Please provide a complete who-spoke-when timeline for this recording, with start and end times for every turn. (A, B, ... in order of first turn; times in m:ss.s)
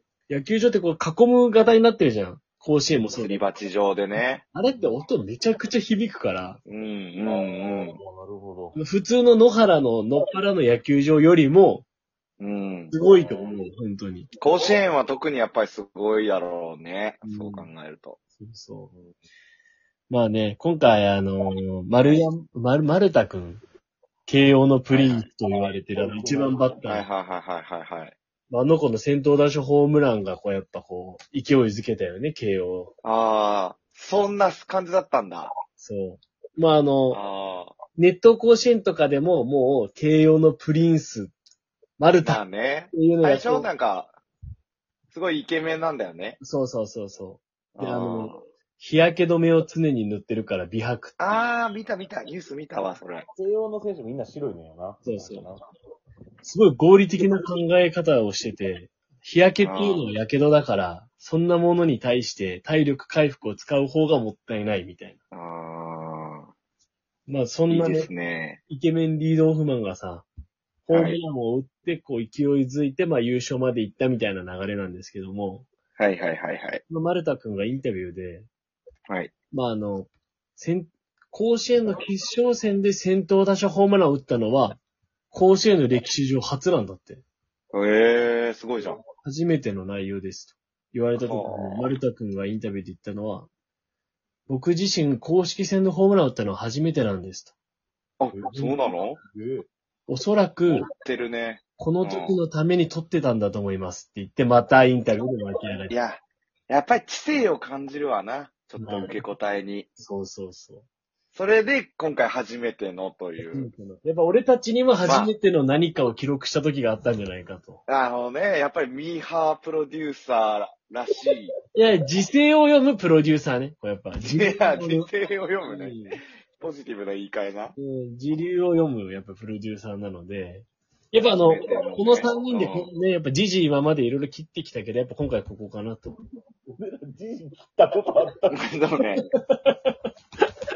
0:00.3-0:03.4 A
0:03.1-0:04.4 B
0:04.2-0:06.6 A
0:06.6-0:08.0 B
0:07.2-0:08.8 C
0:08.7-0:11.8 A
0:12.4-0:12.9 B
0:12.9-0:14.3 A
0:14.4-0:18.2 B
0:17.2-0:17.7 A
0:18.4-0:18.9 A
0:20.1-0:23.6 A
0:24.3-0:27.0 A
0:24.9-0:25.2 B
0:26.1-0:26.6 C
0:26.8-0:28.2 B
0:28.5-0:32.9 A
0:33.0-0:35.5 B
0:35.8-0:37.2 A
0:37.1-0:37.7 B
0:38.0-0:41.3 A
0:42.0-0:42.4 A
0:42.2-0:44.1 B
0:42.9-0:43.7 A
0:45.1-0:46.4 B
0:46.4-0:51.2 A
0:47.7-0:48.4 B
0:51.2-0:53.3 B
0:53.3-0:55.6 C
0:55.0-0:55.4 A
0:56.4-1:05.2 A
0:59.6-1:00.1 B
1:05.3-1:06.5 B
1:07.3-1:08.1 A
1:07.7-1:08.6 B
1:08.7-1:10.2 A
1:10.8-1:15.7 A
1:10.9-1:11.2 B
1:16.0-1:16.8 B
1:16.9-1:18.5 A
1:19.1-1:19.3 B
1:19.5-1:24.8 A
1:25.3-1:27.2 A
1:27.7-1:29.0 B
1:29.2-1:33.5 A
1:31.2-1:31.9 B
1:34.5-1:37.5 A
1:38.2-1:39.2 B
1:38.4-1:39.7 C
1:40.1-1:40.9 A
1:41.0-1:42.4 B
1:41.8-1:45.9 A
1:45.9-1:49.9 B
1:48.8-1:49.2 A
1:50.0-1:50.8 A
1:51.3-1:53.7 B
1:53.4-1:57.8 A
1:55.0-1:55.3 B
1:57.9-2:01.5 B
2:01.7-2:05.1 A
2:04.2-2:06.0 B
2:05.6-2:06.2 A
2:06.6-2:07.7 B
2:07.8-2:16.2 A
2:11.2-2:12.9 B
2:16.7-2:18.6 C
2:18.5-2:19.2 B